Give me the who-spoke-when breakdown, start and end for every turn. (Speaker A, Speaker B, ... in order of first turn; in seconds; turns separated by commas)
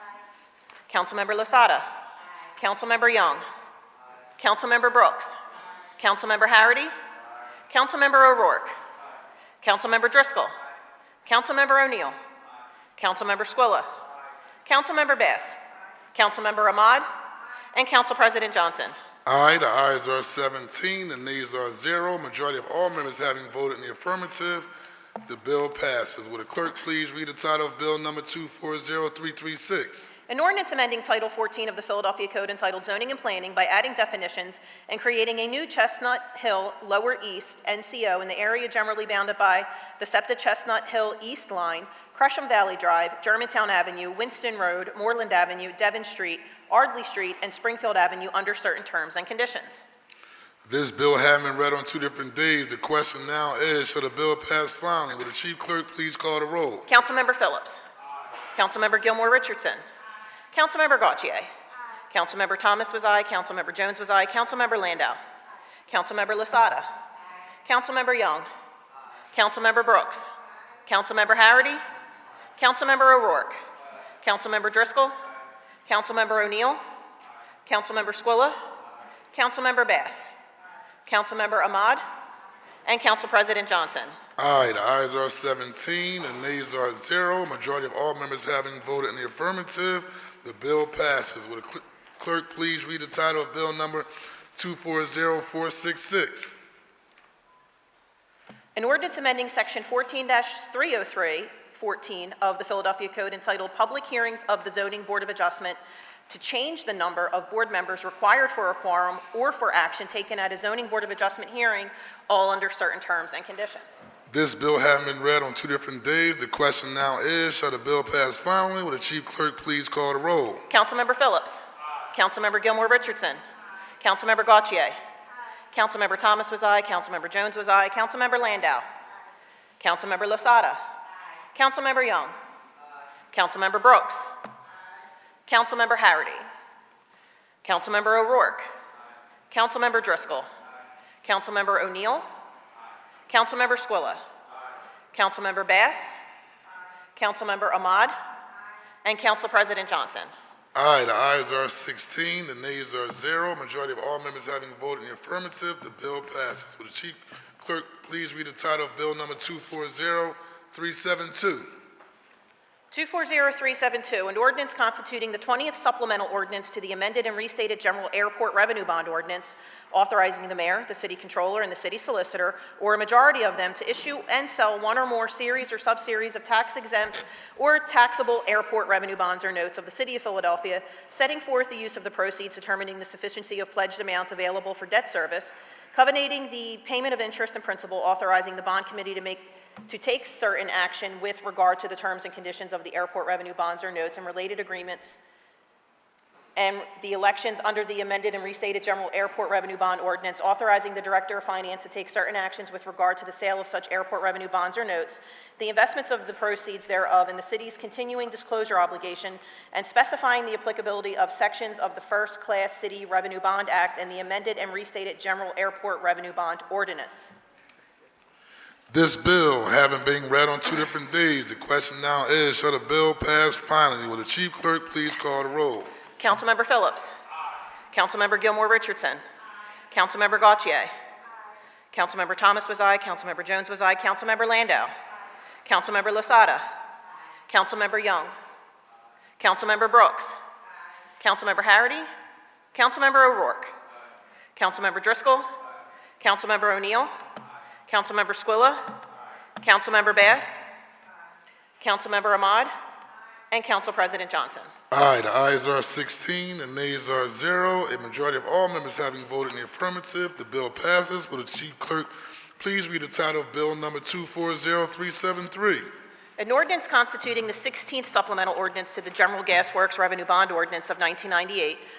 Speaker A: 0.9-1.9, Speaker A: 2.6-3.4, Speaker A: 4.4-5.3, Speaker A: 6.0-6.9, Speaker A: 7.7-8.7, Speaker A: 9.6-10.5, Speaker A: 11.2-12.2, Speaker A: 13.0-13.9, Speaker A: 14.7-15.6, Speaker A: 16.1-17.1, Speaker A: 17.7-18.9, Speaker B: 19.2-24.7, Speaker B: 25.2-30.1, Speaker A: 30.3-49.8, Speaker B: 50.6-56.9, Speaker A: 56.9-57.8, Speaker A: 58.5-59.8, Speaker A: 60.5-61.5, Speaker A: 62.1-65.2, Speaker A: 65.9-66.9, Speaker A: 67.6-68.5, Speaker A: 69.3-70.3, Speaker A: 70.8-71.8, Speaker A: 72.6-73.6, Speaker A: 74.2-75.1, Speaker A: 75.9-76.8, Speaker A: 77.7-78.5, Speaker A: 79.3-80.3, Speaker A: 81.1-82.0, Speaker A: 82.8-84.1, Speaker B: 84.4-96.5, Speaker A: 98.8-105.8, Speaker A: 106.3-114.0, Speaker B: 114.3-120.6, Speaker A: 120.7-123.4, Speaker A: 124.0-125.0, Speaker A: 125.7-128.8, Speaker A: 129.8-130.8, Speaker A: 131.5-132.3, Speaker A: 133.3-134.3, Speaker A: 135.5-136.4, Speaker A: 137.6-138.7, Speaker A: 139.5-140.5, Speaker A: 141.2-142.2, Speaker A: 143.3-144.2, Speaker A: 145.1-146.1, Speaker A: 147.2-148.1, Speaker A: 149.0-150.3, Speaker B: 150.7-161.7, Speaker A: 162.9-195.2, Speaker A: 196.6-217.3, Speaker B: 218.9-225.9, Speaker A: 226.2-227.1, Speaker A: 227.9-229.2, Speaker A: 229.9-230.9, Speaker A: 231.9-234.9, Speaker A: 235.6-236.6, Speaker A: 237.5-238.3, Speaker A: 239.4-240.3, Speaker A: 241.2-242.1, Speaker A: 242.7-243.7, Speaker A: 244.6-245.5, Speaker A: 246.2-247.1, Speaker A: 247.9-249.0, Speaker A: 249.6-250.6, Speaker A: 251.8-252.7, Speaker A: 253.5-254.7, Speaker B: 254.9-265.9, Speaker A: 266.4-271.8